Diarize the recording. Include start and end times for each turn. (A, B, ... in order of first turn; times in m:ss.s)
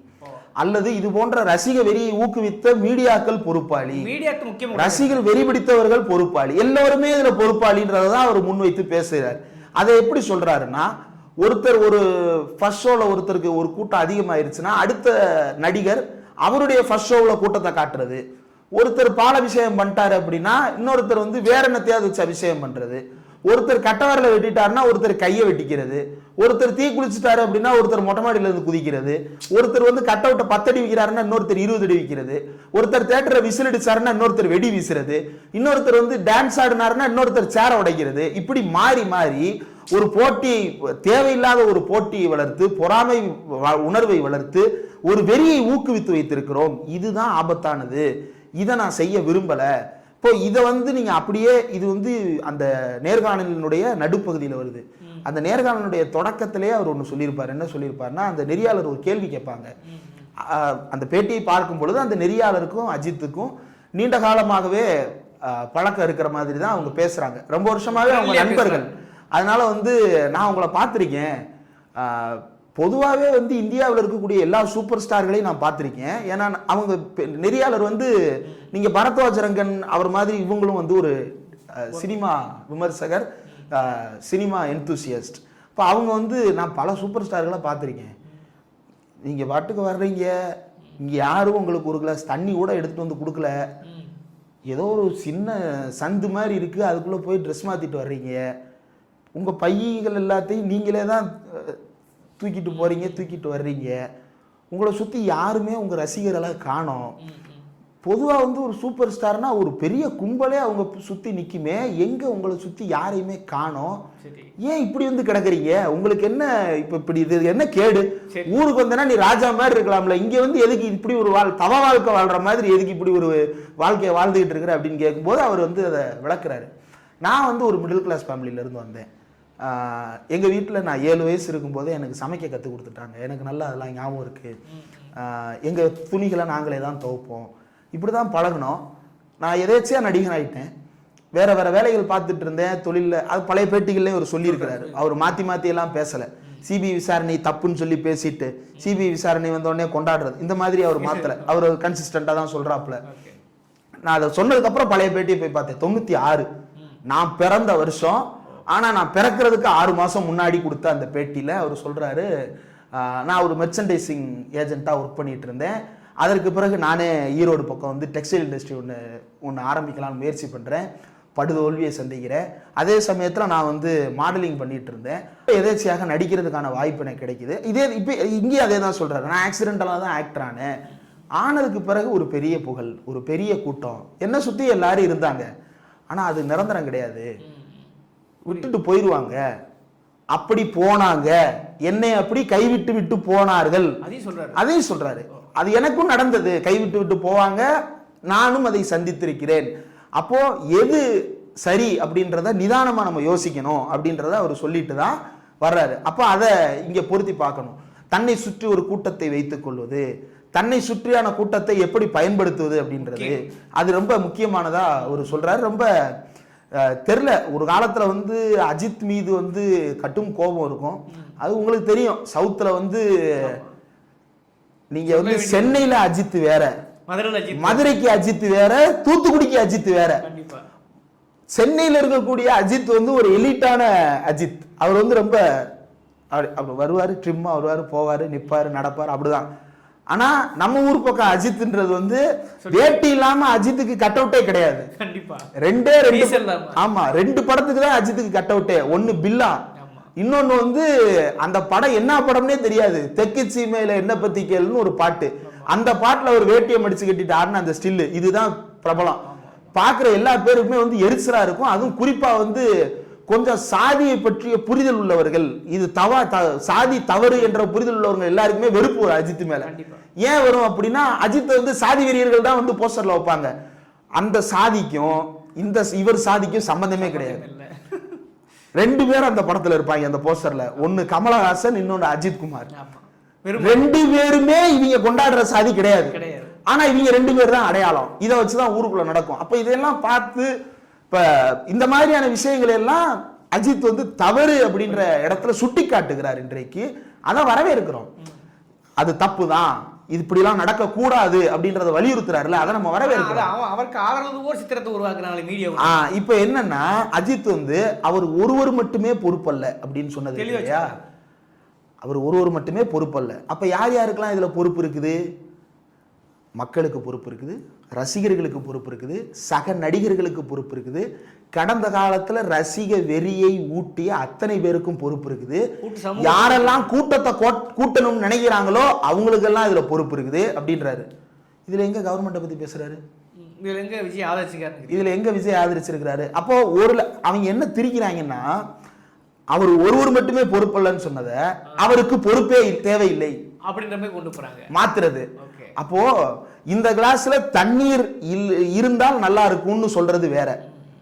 0:00.6-0:04.1 A
0:03.9-0:05.2 B
0:04.8-0:18.2 A
0:18.8-0:48.1 A
0:48.6-0:49.7 A
0:50.2-0:59.7 A
0:59.8-1:00.3 B
1:00.4-1:04.8 A
1:05.4-1:11.4 A
1:07.9-1:08.9 B
1:12.0-1:18.1 A
1:18.7-1:21.1 A
1:21.7-1:28.1 A
1:29.2-1:30.3 A
1:31.0-1:33.6 A
1:33.8-1:34.1 B
1:34.7-1:38.4 A
1:39.3-1:41.8 A
1:42.4-1:44.0 A
1:42.7-1:43.2 B
1:44.7-1:47.2 A
1:47.2-1:47.6 B
1:48.0-1:54.0 A
1:54.2-1:54.5 B
1:54.6-2:06.7 A
2:07.2-2:09.1 A
2:09.6-2:14.6 A
2:14.7-2:15.1 B
2:15.2-2:18.8 A
2:19.4-2:20.7 A
2:21.3-2:33.0 A
2:24.4-2:25.0 B
2:31.0-2:31.5 B
2:33.0-2:33.4 B
2:34.0-2:36.5 A
2:37.1-2:42.3 A
2:42.9-3:00.8 A
3:01.4-3:05.5 A
3:06.1-3:07.3 A
3:07.4-3:07.8 B
3:08.4-3:09.4 A
3:10.3-3:14.0 A
3:14.0-3:14.6 B
3:14.5-3:17.6 A
3:18.3-3:21.0 A
3:21.6-3:35.9 A
3:33.0-3:33.4 B
3:36.8-3:43.6 A
3:43.4-3:43.7 B
3:44.9-3:46.7 A
3:45.1-3:45.8 B
3:47.1-3:48.0 B
3:47.6-3:50.2 A
3:50.2-3:50.6 B
3:51.5-3:55.6 A
3:56.3-3:59.5 A
4:00.1-4:04.9 A
4:02.6-4:03.0 B
4:05.0-4:05.5 B
4:05.6-4:09.6 A
4:06.0-4:06.8 B
4:09.8-4:10.1 B
4:10.2-4:10.9 A
4:11.4-4:19.2 A
4:19.2-4:19.6 B
4:19.7-4:22.7 A
4:23.3-4:33.5 A
4:29.6-4:30.0 B
4:34.2-4:37.4 A
4:37.0-4:38.2 B
4:38.8-4:42.7 A
4:42.7-4:44.0 B
4:43.6-4:46.1 A
4:46.0-4:46.6 B
4:46.7-4:50.5 A
4:51.1-4:58.1 A
4:59.0-5:03.5 A
5:03.0-5:05.9 B
5:05.8-5:10.9 A
5:10.4-5:10.9 B
5:12.0-5:15.2 A
5:16.6-5:25.7 A
5:25.8-5:26.9 B
5:26.2-5:31.1 A
5:31.7-5:33.0 A
5:33.4-5:35.1 B
5:34.9-5:38.6 A
5:39.5-5:43.4 A
5:43.6-5:44.7 B
5:44.7-5:46.1 A
5:45.4-5:45.7 B
5:46.7-5:50.6 A